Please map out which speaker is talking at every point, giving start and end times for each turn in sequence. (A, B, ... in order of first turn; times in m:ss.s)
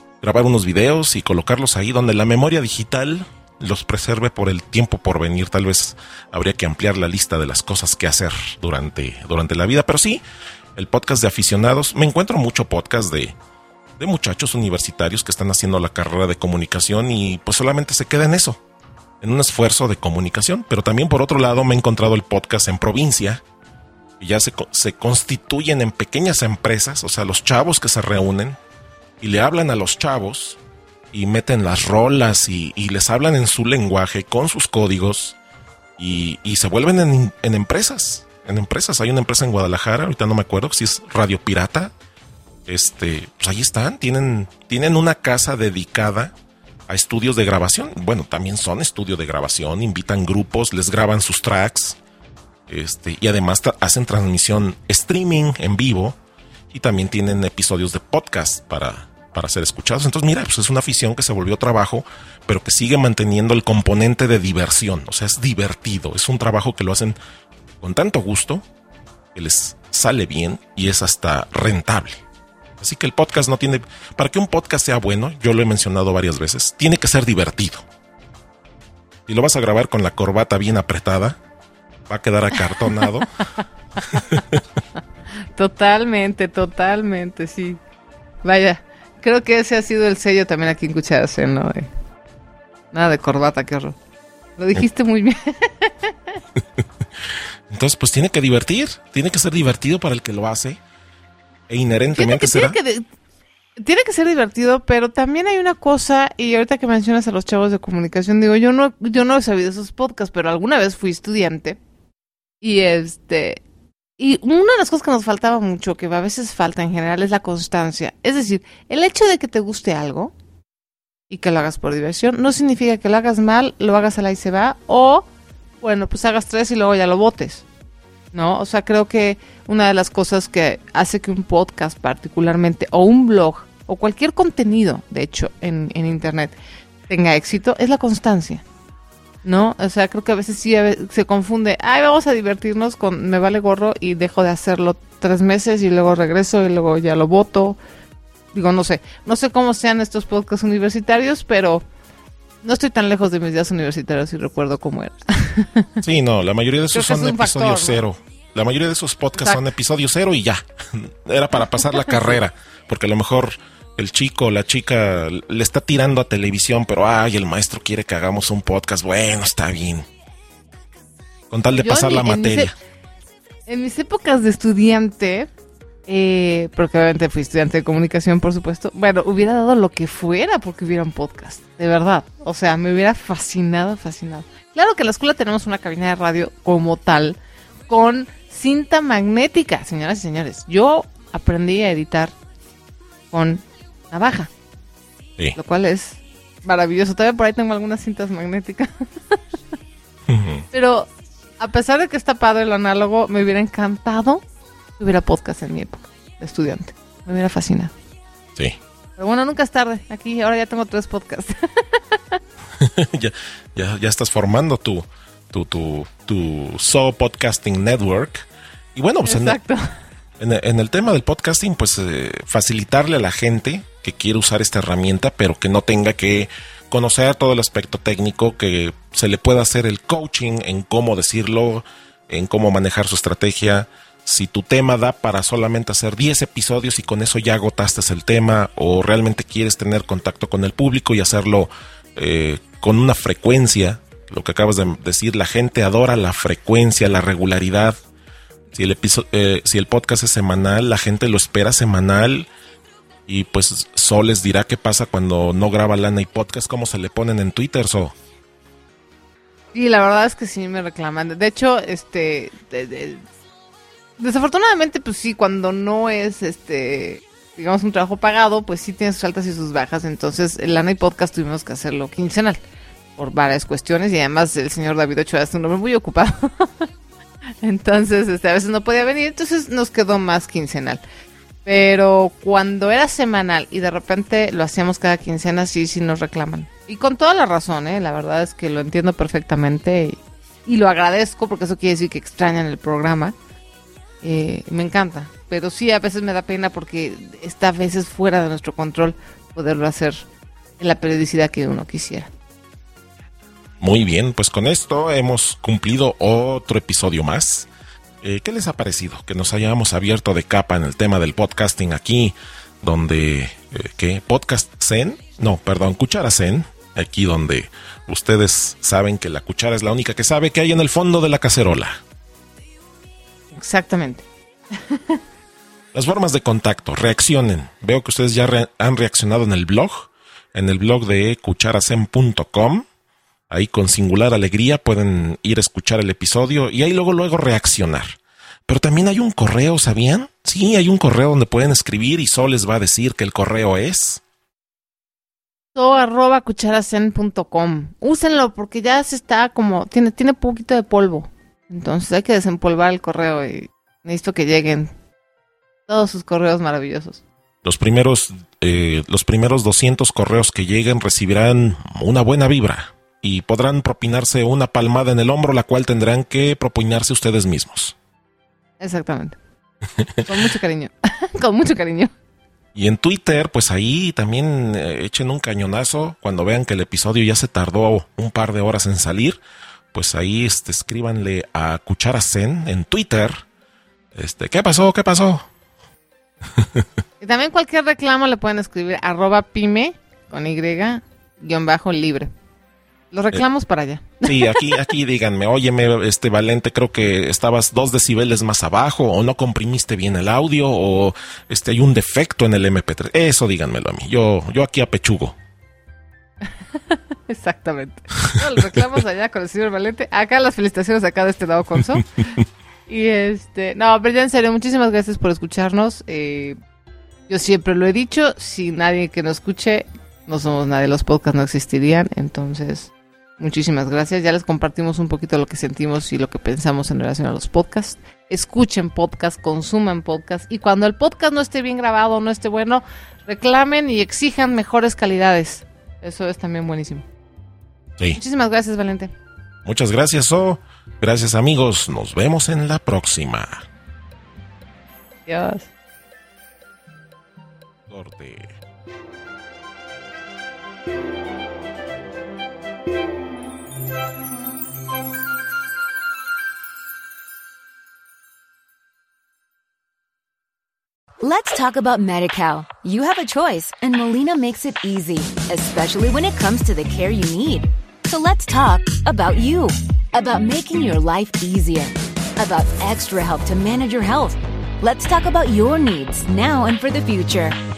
0:00.2-0:10.2 A
0:10.8-0:13.4 A
0:14.0-0:18.6 A
0:19.2-0:23.4 A
0:24.2-0:28.6 A
0:29.2-0:30.6 A
0:31.1-0:35.4 A
0:36.0-0:41.9 A
0:42.7-0:46.3 A
0:46.9-0:52.0 A
0:52.7-0:56.2 A
0:56.7-1:07.2 A
1:07.8-1:08.6 A
1:09.4-1:12.2 A
1:12.8-1:17.8 A
1:19.3-1:21.4 A
1:22.1-1:23.3 A
1:22.9-1:23.2 B
1:24.0-1:24.4 B
1:24.1-1:24.6 A
1:25.5-1:27.8 B
1:28.4-1:31.9 B
1:32.9-1:34.0 B
1:34.6-1:36.4 B
1:37.7-1:40.8 A
1:41.7-1:42.8 A
1:42.2-1:43.0 B
1:43.8-1:51.8 B
1:52.6-1:53.6 B
1:54.2-2:00.3 B
2:01.3-2:05.3 B
2:05.8-2:07.6 B
2:08.3-2:16.5 B
2:17.1-2:18.6 B
2:19.4-2:27.8 B
2:28.5-2:31.8 B
2:32.6-2:36.0 B
2:36.0-2:50.1 A
2:36.9-2:38.0 B
2:51.5-2:52.7 A
2:51.8-2:52.7 B
2:53.7-2:55.5 B
2:56.1-3:07.4 B
3:07.9-3:12.4 B
3:13.3-3:14.5 B
3:15.6-3:19.4 B
3:20.3-3:20.6 A
3:20.7-3:24.4 B
3:25.0-3:27.9 B
3:29.2-3:32.4 B
3:32.8-3:39.6 A
3:39.2-3:39.9 B
3:40.4-4:08.0 A
4:08.7-4:12.5 A
4:13.3-4:18.1 A
4:19.7-4:23.2 B
4:24.2-4:32.6 B
4:33.2-4:36.9 B
4:37.6-4:41.0 B
4:41.6-4:53.4 B
4:54.2-5:00.2 B
5:00.8-5:02.3 B
5:03.8-5:07.7 A
5:08.2-5:22.0 A
5:23.5-5:25.2 B
5:25.9-5:32.9 A
5:33.5-5:44.2 A
5:45.8-5:54.9 B
5:55.9-5:57.2 B
5:57.6-6:08.0 A
6:08.8-6:09.4 B
6:10.2-6:12.1 B
6:12.8-6:19.4 A
6:19.9-6:23.4 A
6:24.1-6:25.5 A
6:26.5-6:26.9 A
6:27.2-6:32.3 B
6:33.1-6:34.7 B
6:34.2-6:45.4 A
6:46.8-6:52.2 B
6:52.9-6:56.6 B
6:57.3-7:17.0 B
7:18.2-7:19.1 B
7:19.6-7:23.7 A
7:25.3-7:25.7 B
7:27.9-7:28.6 A
7:41.2-7:57.6 C